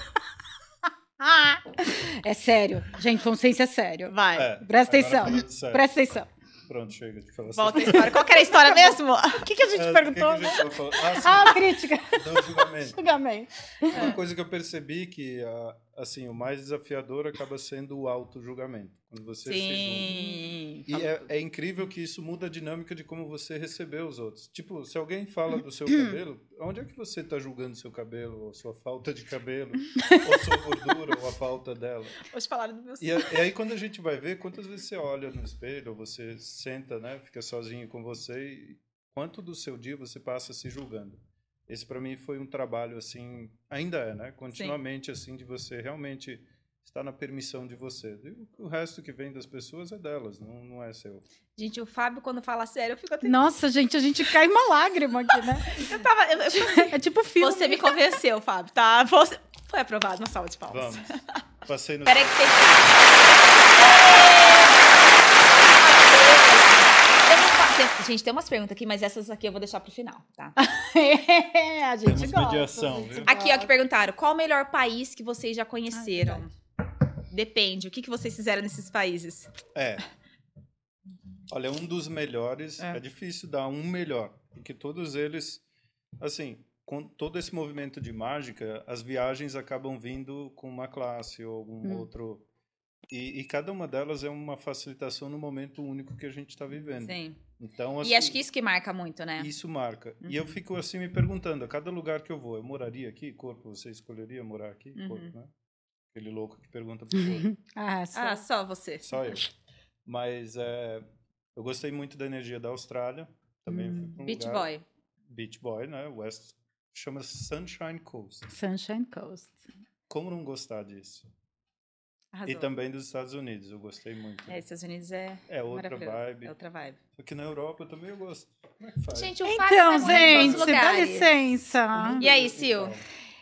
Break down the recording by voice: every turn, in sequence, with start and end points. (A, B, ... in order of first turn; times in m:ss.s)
0:01.2-0:06.3 A
0:04.1-0:04.5 B
0:04.4-0:05.9 C
0:06.7-0:08.3 C
0:07.6-0:09.4 B
0:08.0-0:14.1 A
0:09.7-0:13.0 C
0:13.9-0:20.2 C
0:19.5-0:21.2 B
0:20.9-0:32.2 C
0:32.3-0:33.4 B
0:33.0-0:51.2 C
0:51.6-0:53.5 B
0:53.2-0:56.0 A
0:55.3-1:01.4 B
0:56.5-0:57.9 A
1:00.7-1:03.1 C
1:02.1-1:02.9 B
1:03.7-1:04.9 B
1:05.7-1:10.6 B
1:10.6-1:13.7 A
1:12.0-1:13.3 C
1:13.3-1:16.5 B
1:15.9-1:16.5 A
1:17.3-1:19.5 B
1:19.7-1:20.0 C
1:21.5-1:25.6 C
1:26.2-1:32.4 C
1:33.1-1:38.4 C
1:37.0-1:37.4 B
1:38.0-1:39.5 B
1:39.4-1:45.5 C
1:45.0-1:45.3 B
1:46.1-1:47.5 C
1:47.2-1:48.4 A
1:48.2-1:49.2 B
1:49.0-1:49.4 C
1:50.1-1:51.0 C
1:51.6-1:54.7 C
1:53.7-1:54.1 A
1:54.2-1:54.8 B
1:55.3-1:58.5 C
1:58.5-1:59.6 A
2:00.1-2:01.3 C
2:02.3-2:02.7 B
2:02.4-2:04.6 C
2:04.5-2:07.0 B
2:05.5-2:06.5 C
2:07.2-2:09.4 C
2:09.1-2:11.3 B
2:09.4-2:12.3 A
2:10.0-2:10.8 C
2:12.0-2:13.0 C
2:12.2-2:13.0 B